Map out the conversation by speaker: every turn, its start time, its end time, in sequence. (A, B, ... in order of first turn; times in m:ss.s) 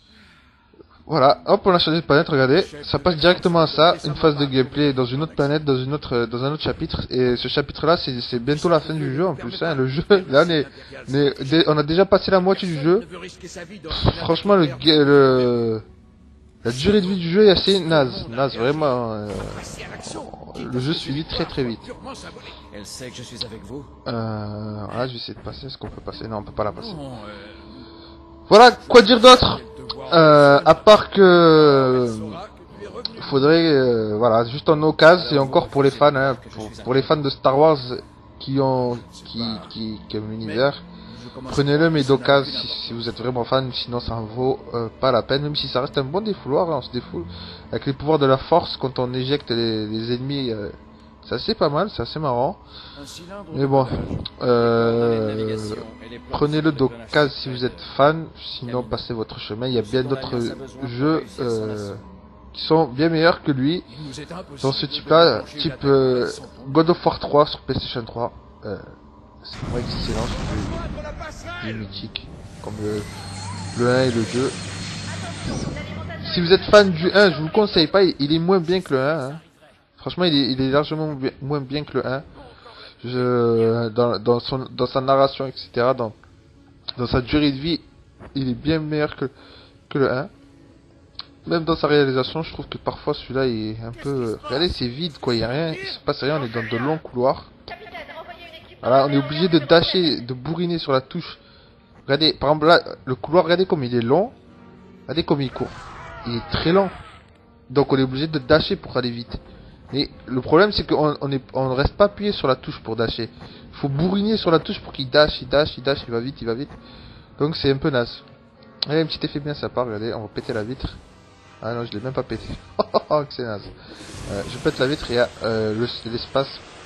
0:01.1-0:13.0 A
0:02.3-0:05.6 B
0:08.5-0:11.7 B
0:12.5-0:15.6 B
0:13.9-0:15.8 A
0:16.6-0:21.9 A
0:16.7-0:22.6 B
0:22.7-0:23.9 C
0:24.0-0:27.0 A
0:26.7-0:27.7 B
0:28.5-0:32.4 A
0:28.8-0:33.5 B
0:33.1-0:40.8 A
0:35.1-0:37.2 C
0:39.0-0:39.7 B
0:40.4-0:43.0 B
0:41.5-0:52.6 A
0:53.0-0:54.2 B
0:53.5-1:02.0 A
0:54.5-0:57.9 C
0:58.6-0:59.0 C
0:59.7-1:02.0 C
1:02.5-1:03.8 A
1:03.9-1:06.8 B
1:04.6-1:10.8 A
1:11.6-1:13.0 A
1:13.7-1:14.6 A
1:16.2-1:19.4 A
1:20.0-1:22.2 A
1:23.0-1:26.2 A
1:27.0-1:29.3 A
1:29.9-1:30.3 A
1:31.4-1:37.5 A
1:38.8-1:41.4 A
1:42.1-1:44.3 A
1:45.1-1:47.0 A
1:47.7-1:49.4 A
1:49.9-1:56.7 A
1:57.4-1:58.2 A
1:58.9-2:01.0 A
2:01.6-2:03.7 A
2:04.3-2:06.6 A